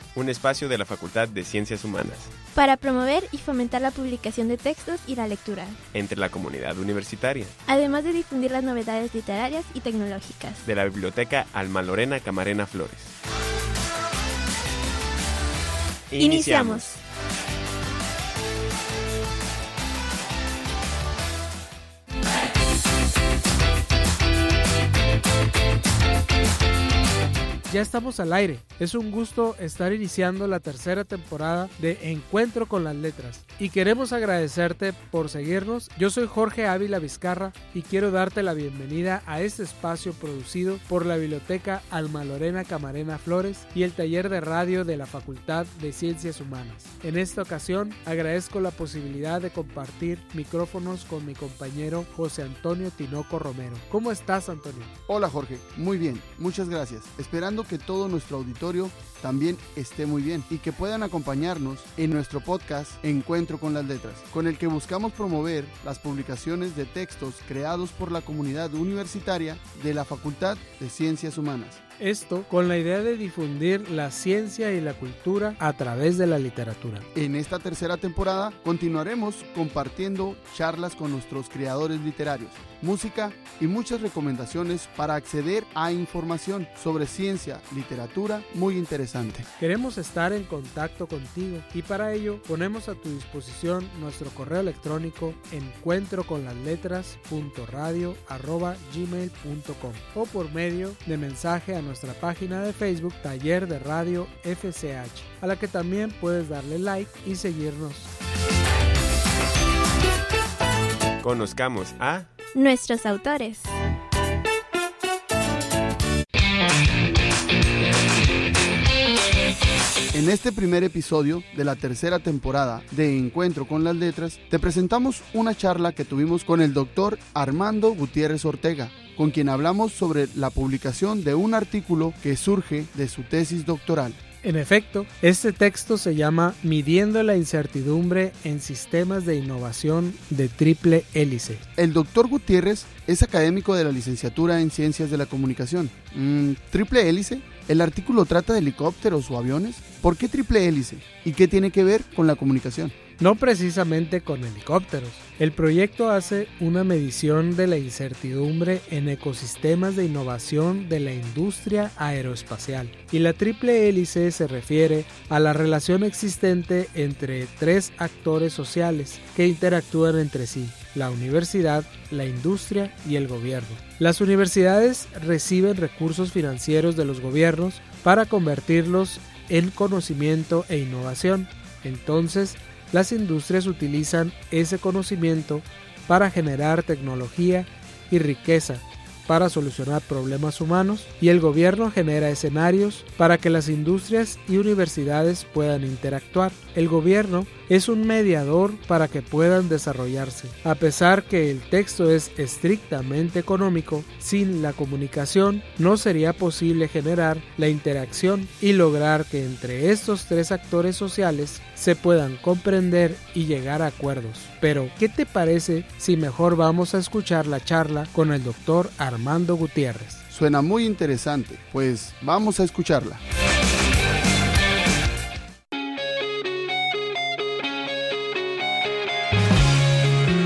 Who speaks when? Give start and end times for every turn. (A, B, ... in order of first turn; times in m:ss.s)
0:00.1-0:02.3 A
0:02.5-0:05.8 B
0:05.9-0:07.6 A
0:07.7-0:10.6 B
0:10.6-0:13.1 A
0:16.1-0:17.0 A
0:16.2-0:17.0 B
0:27.7-0:54.9 C
0:55.1-1:11.8 D
1:12.0-1:17.1 C
1:17.1-1:29.5 D
1:29.6-1:48.1 C
1:51.2-1:52.3 A
1:52.5-1:53.7 B
2:00.1-2:14.2 D
2:14.4-2:21.6 C
2:21.8-2:33.0 D
2:33.2-3:40.2 C
3:40.3-3:43.2 D